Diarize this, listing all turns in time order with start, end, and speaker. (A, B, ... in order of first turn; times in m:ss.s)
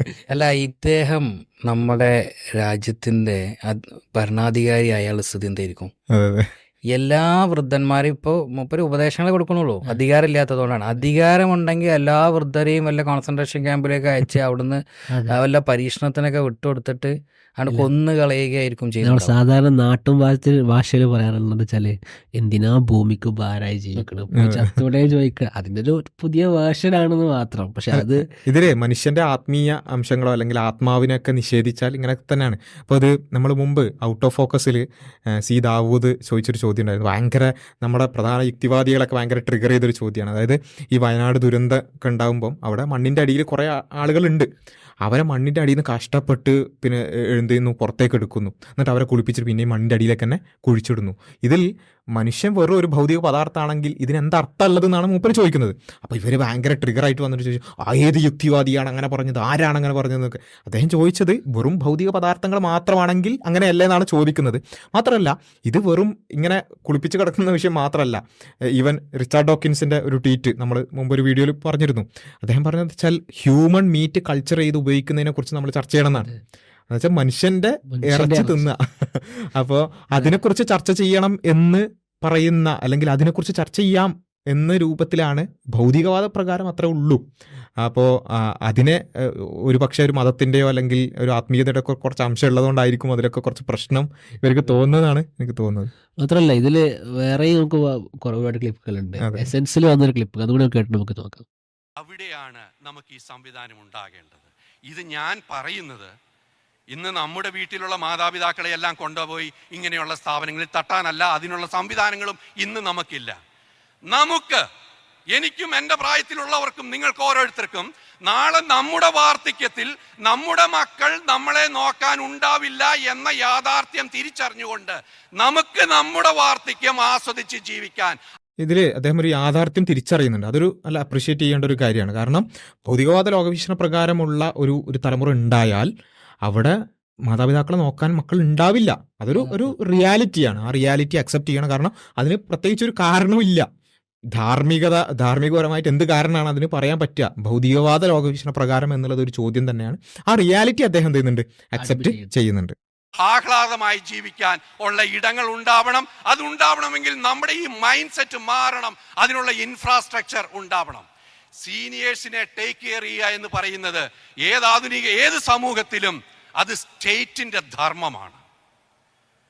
0:00.3-0:05.9 A
0:06.1-0:06.5 B
0:06.9-0:19.3 A
0:19.0-0:28.2 C
0:24.3-0:24.7 B
0:27.9-0:34.8 B
0:35.3-0:44.5 B
0:45.0-1:16.3 B
1:16.9-1:27.2 B
1:17.9-1:18.7 C
1:27.8-1:35.9 B
1:36.2-1:41.4 C
1:39.2-1:39.5 B
1:42.0-1:46.1 D
1:46.9-1:53.4 D
1:54.1-1:54.6 D
1:55.3-2:08.2 D
2:08.6-2:15.9 B
2:16.4-2:23.6 B
2:19.4-2:19.7 C
2:24.3-2:32.7 B
2:31.8-2:32.3 C
2:33.2-2:41.0 D
2:41.6-2:48.4 D